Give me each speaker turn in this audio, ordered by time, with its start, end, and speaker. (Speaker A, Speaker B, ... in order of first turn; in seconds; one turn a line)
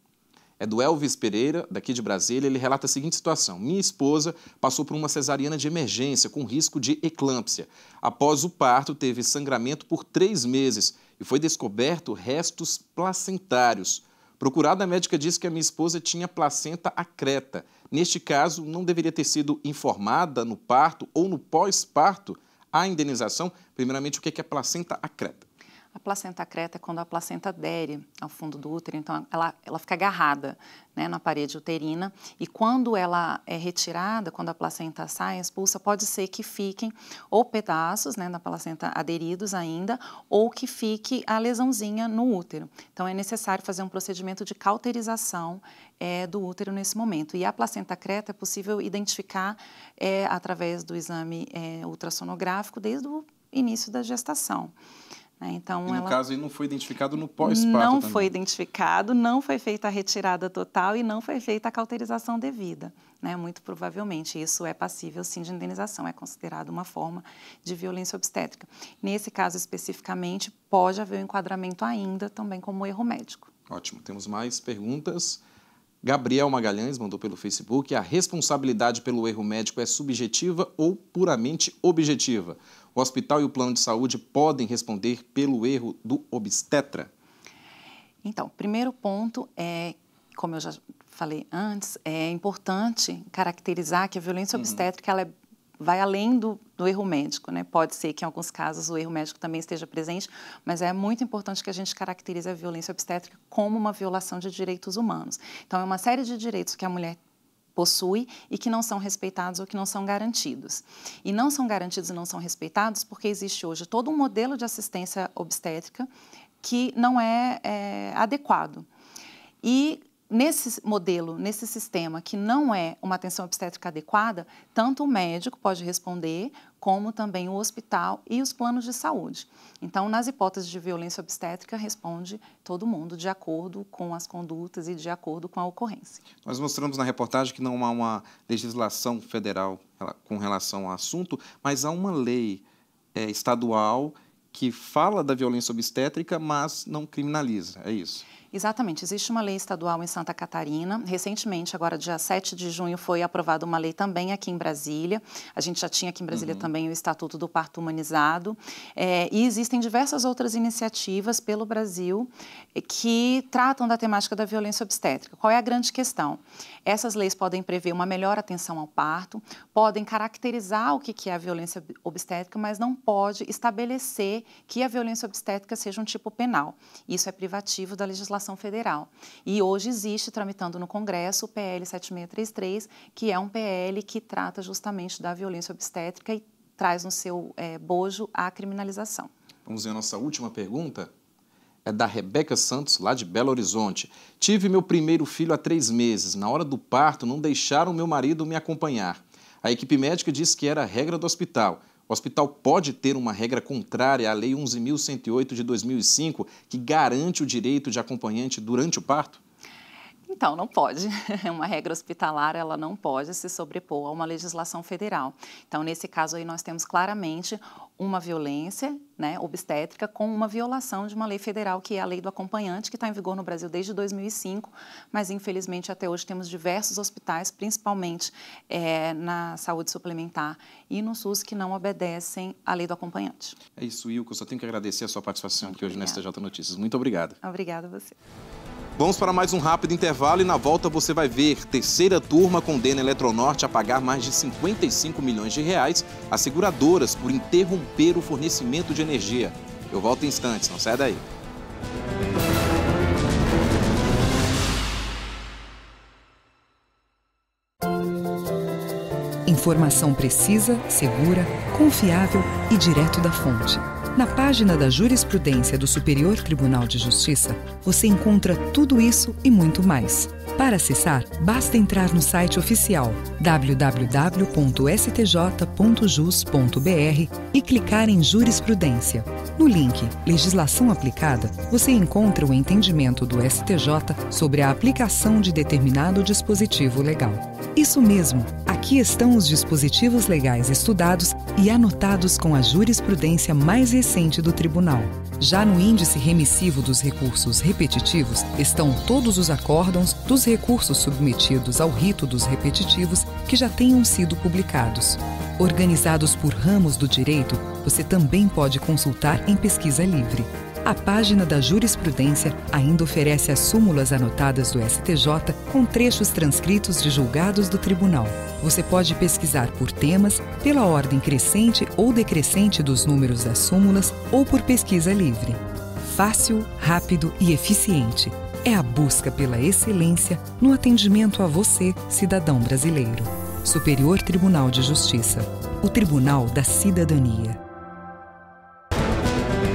Speaker A: 0.6-25.5
Speaker B: 25.9-54.7
Speaker B: 55.4-56.2
Speaker A: 55.9-58.3
Speaker B: 57.4-73.5
Speaker A: 73.7-75.4
Speaker A: 76.0-87.1
Speaker B: 88.2-107.2
Speaker A: 94.5-94.8
Speaker B: 107.8-116.1
Speaker B: 116.6-118.9
Speaker B: 119.6-136.2
Speaker A: 136.4-148.2
Speaker B: 148.5-189.3
Speaker A: 156.3-156.7
Speaker A: 189.7-191.1
Speaker A: 191.8-209.4
Speaker B: 210.3-233.6
Speaker A: 233.8-237.4
Speaker B: 235.6-236.2
Speaker B: 237.4-238.2
Speaker A: 239.0-251.2
Speaker C: 259.4-337.6